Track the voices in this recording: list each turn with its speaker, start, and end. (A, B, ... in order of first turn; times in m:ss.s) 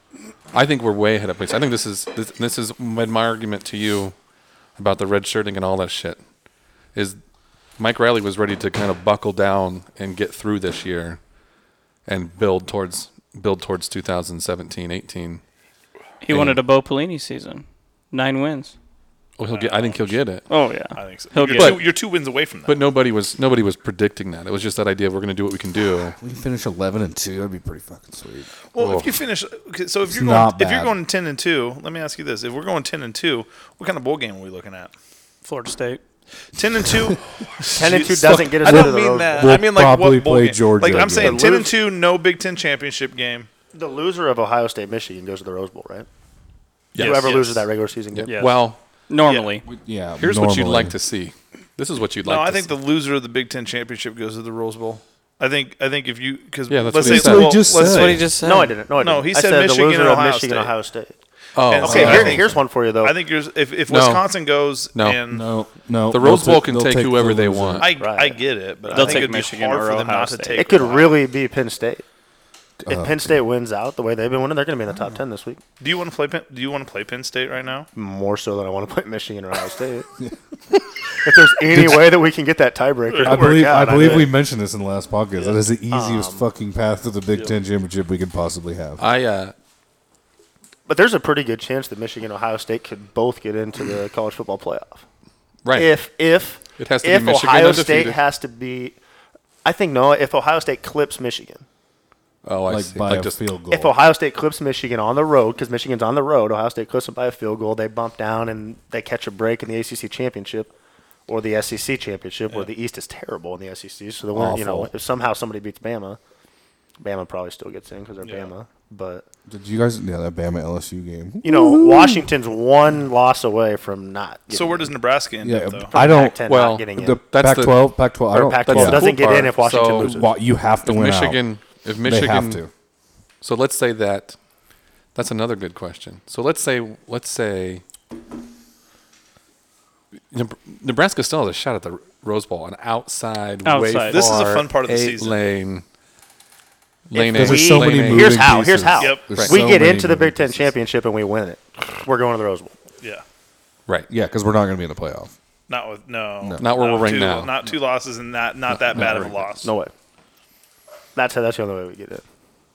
0:00.5-0:04.1 A
0:04.8-0:06.2 A
0:07.8-0:11.2 A
0:12.0-0:15.4 A
0:16.2-0:18.7 B
0:16.3-0:16.6 A
0:19.4-0:20.5 A
0:19.5-0:20.1 C
0:20.5-0:21.8 B
0:21.0-0:22.8 C
0:21.5-0:21.9 A
0:22.7-0:26.2 A
0:26.2-0:28.5 D
0:28.7-0:34.9 C
0:28.8-0:29.1 A
0:30.0-0:31.0 D
0:35.4-0:36.0 B
0:36.5-0:43.5 C
0:36.9-0:41.4 D
0:37.7-0:39.6 E
0:40.9-0:41.7 E
0:43.7-0:46.1 E
0:46.9-0:47.4 A
0:47.0-0:47.6 C
0:47.0-0:48.3 E
0:48.1-0:48.8 A
0:48.3-0:49.6 B
0:49.6-0:51.0 D
0:50.2-0:52.7 A
0:52.2-0:58.2 C
0:56.7-0:57.8 A
0:57.0-0:58.2 D
0:57.7-0:58.7 B
0:58.4-1:01.1 E
0:59.0-1:00.7 C
1:01.5-1:02.4 A
1:01.7-1:02.5 C
1:01.8-1:03.2 E
1:01.8-1:02.5 D
1:03.0-1:05.4 C
1:03.9-1:04.2 A
1:04.9-1:05.2 A
1:05.3-1:07.9 D
1:06.1-1:07.9 A
1:07.8-1:11.1 C
1:08.0-1:09.3 E
1:08.9-1:10.8 B
1:10.5-1:12.0 E
1:12.8-1:13.4 D
1:12.9-1:15.6 E
1:15.8-1:17.9 C
1:17.9-1:20.1 E
1:20.2-1:20.8 D
1:21.2-1:24.3 E
1:21.6-1:22.2 D
1:23.1-1:24.3 C
1:23.2-1:29.0 D
1:25.9-1:26.5 E
1:29.0-1:29.5 A
1:30.9-1:35.0 E
1:35.6-1:35.9 A
1:35.7-1:39.0 E
1:36.8-1:38.2 A
1:39.6-1:41.6 E
1:42.4-1:43.4 A
1:42.7-1:43.9 D
1:43.7-1:50.7 E
1:51.3-1:56.2 E
1:54.3-1:54.9 A
1:57.0-1:59.2 E
1:59.5-2:02.2 D
2:01.4-2:04.9 E
2:04.5-2:05.9 C
2:05.4-2:06.4 D
2:05.9-2:07.2 E
2:06.4-2:10.2 A
2:06.9-2:09.2 D
2:08.3-2:10.3 E
2:09.9-2:12.7 D
2:10.8-2:12.6 A
2:13.4-2:14.4 A
2:15.1-2:17.8 A
2:20.3-2:25.8 A
2:23.6-2:24.3 B
2:24.1-2:25.4 C
2:27.1-2:28.5 A
2:27.1-2:32.7 E
2:27.3-2:30.7 D
2:29.0-2:29.3 C
2:29.3-2:29.6 A
2:34.1-2:35.3 D
2:35.7-2:39.7 C
2:36.6-2:37.7 A
2:38.7-2:39.5 A
2:39.6-2:39.9 E
2:41.1-2:42.2 E